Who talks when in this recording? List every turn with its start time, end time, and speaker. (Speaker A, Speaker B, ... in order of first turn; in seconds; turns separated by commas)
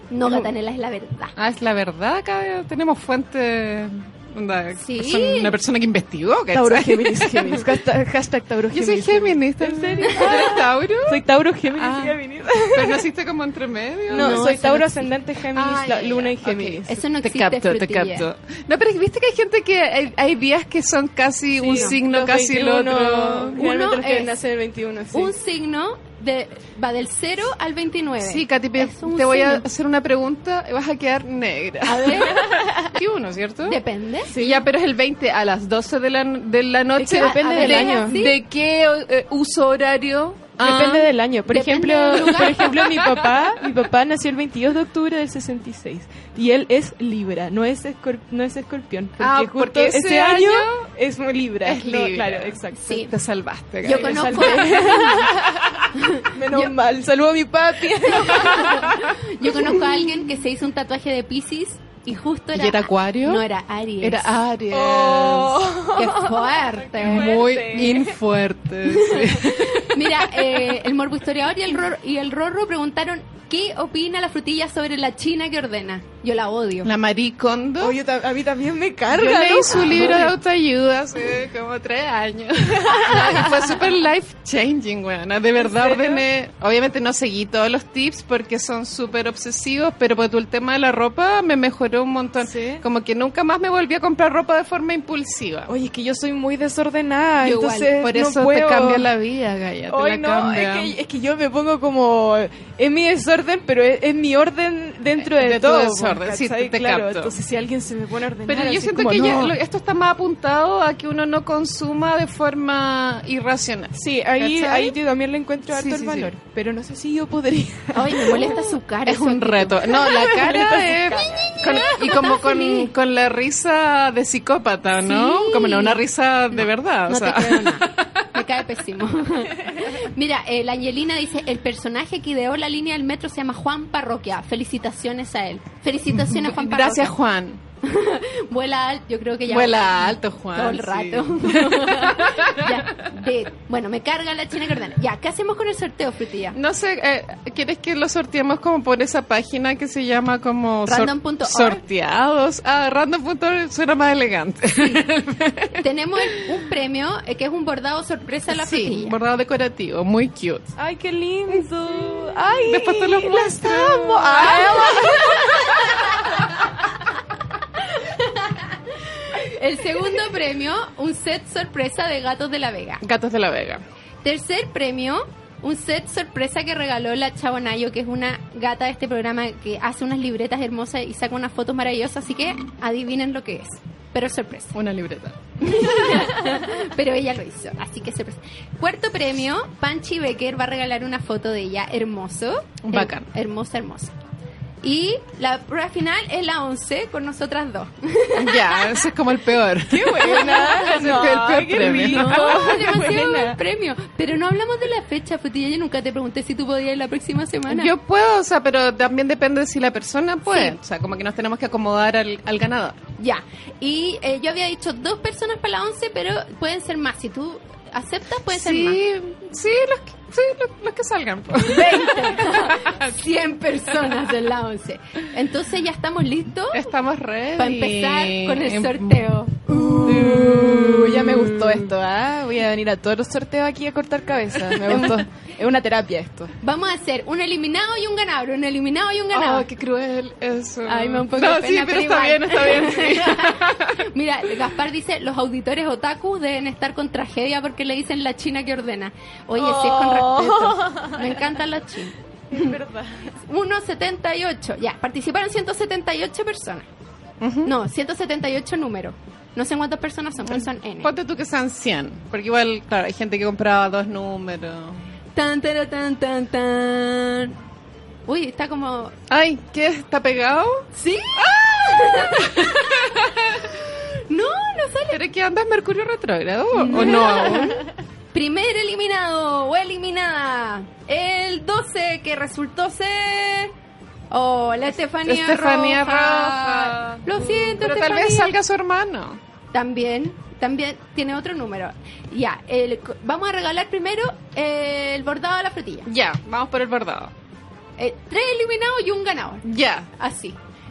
Speaker A: 0.1-1.3, Speaker B: 0.2-0.5, Speaker B: 1.4-7.7, Speaker A: 4.8-5.6, Speaker C: 6.5-13.1, Speaker B: 8.7-11.2, Speaker B: 11.8-12.2, Speaker B: 12.7-14.7, Speaker C: 14.1-17.0, Speaker A: 14.1-14.9, Speaker B: 15.5-23.6, Speaker A: 16.9-18.3, Speaker C: 21.6-25.3, Speaker A: 21.7-22.0, Speaker A: 23.6-24.4, Speaker A: 25.1-29.6, Speaker B: 28.2-33.8, Speaker A: 31.9-32.4, Speaker C: 32.3-32.9, Speaker A: 33.6-34.6, Speaker B: 34.3-41.1, Speaker C: 37.0-38.2, Speaker A: 37.1-38.4, Speaker C: 40.6-53.0, Speaker A: 41.5-42.8, Speaker B: 42.1-43.3, Speaker B: 49.2-50.9, Speaker B: 51.6-54.7, Speaker A: 52.8-53.1, Speaker A: 53.8-55.3, Speaker C: 53.9-59.0, Speaker A: 55.9-56.7, Speaker A: 58.0-64.3, Speaker B: 59.5-59.8, Speaker B: 62.5-63.5, Speaker B: 64.0-65.6, Speaker C: 64.7-68.2, Speaker A: 65.9-67.4, Speaker B: 67.0-70.0, Speaker A: 69.1-76.9, Speaker B: 76.8-78.0, Speaker C: 77.8-80.4, Speaker B: 79.1-95.7, Speaker C: 82.8-83.8, Speaker C: 85.6-86.3, Speaker C: 92.4-92.8, Speaker C: 95.7-99.1, Speaker A: 97.4-97.9, Speaker B: 98.0-100.9, Speaker C: 99.9-109.6, Speaker B: 105.3-107.3, Speaker B: 108.5-115.0, Speaker C: 113.9-118.7, Speaker B: 115.7-116.3, Speaker A: 117.9-120.3, Speaker B: 119.1-128.2, Speaker C: 119.9-122.2, Speaker A: 121.6-122.9, Speaker A: 125.0-137.2, Speaker B: 136.1-137.6, Speaker A: 137.8-146.6, Speaker B: 139.5-142.8, Speaker B: 146.5-155.8, Speaker A: 150.9-151.8, Speaker A: 154.8-155.0, Speaker A: 155.7-159.2, Speaker B: 158.5-160.7, Speaker C: 160.8-166.3, Speaker B: 161.5-165.9, Speaker A: 164.4-165.4, Speaker A: 167.8-173.0, Speaker B: 173.0-173.8, Speaker A: 174.2-184.8, Speaker B: 184.7-186.3, Speaker A: 185.6-194.1, Speaker B: 192.8-193.3, Speaker A: 194.8-199.0, Speaker B: 198.4-202.9, Speaker C: 199.9-203.6, Speaker A: 200.4-201.1, Speaker A: 201.8-207.9, Speaker B: 207.7-213.0, Speaker A: 210.5-210.8, Speaker A: 213.2-219.0, Speaker B: 218.5-223.1, Speaker A: 221.6-226.9, Speaker B: 226.7-231.9, Speaker A: 227.6-230.3, Speaker C: 230.0-236.5, Speaker A: 234.9-235.2, Speaker A: 236.6-239.7, Speaker B: 239.3-244.0, Speaker A: 240.9-252.8, Speaker C: 249.6-251.6, Speaker C: 252.5-253.3, Speaker A: 253.5-256.9, Speaker B: 257.4-257.7, Speaker A: 257.6-261.1, Speaker B: 260.5-265.0, Speaker A: 265.4-267.6, Speaker A: 268.3-269.1, Speaker B: 269.3-270.9, Speaker A: 270.9-273.2, Speaker B: 271.4-273.7, Speaker A: 273.9-275.2, Speaker B: 275.1-277.8, Speaker A: 276.7-283.7, Speaker A: 284.3-288.6, Speaker B: 285.3-289.4, Speaker A: 289.7-296.1, Speaker B: 296.1-297.3, Speaker A: 298.0-299.6, Speaker B: 299.6-300.1, Speaker A: 300.2-300.6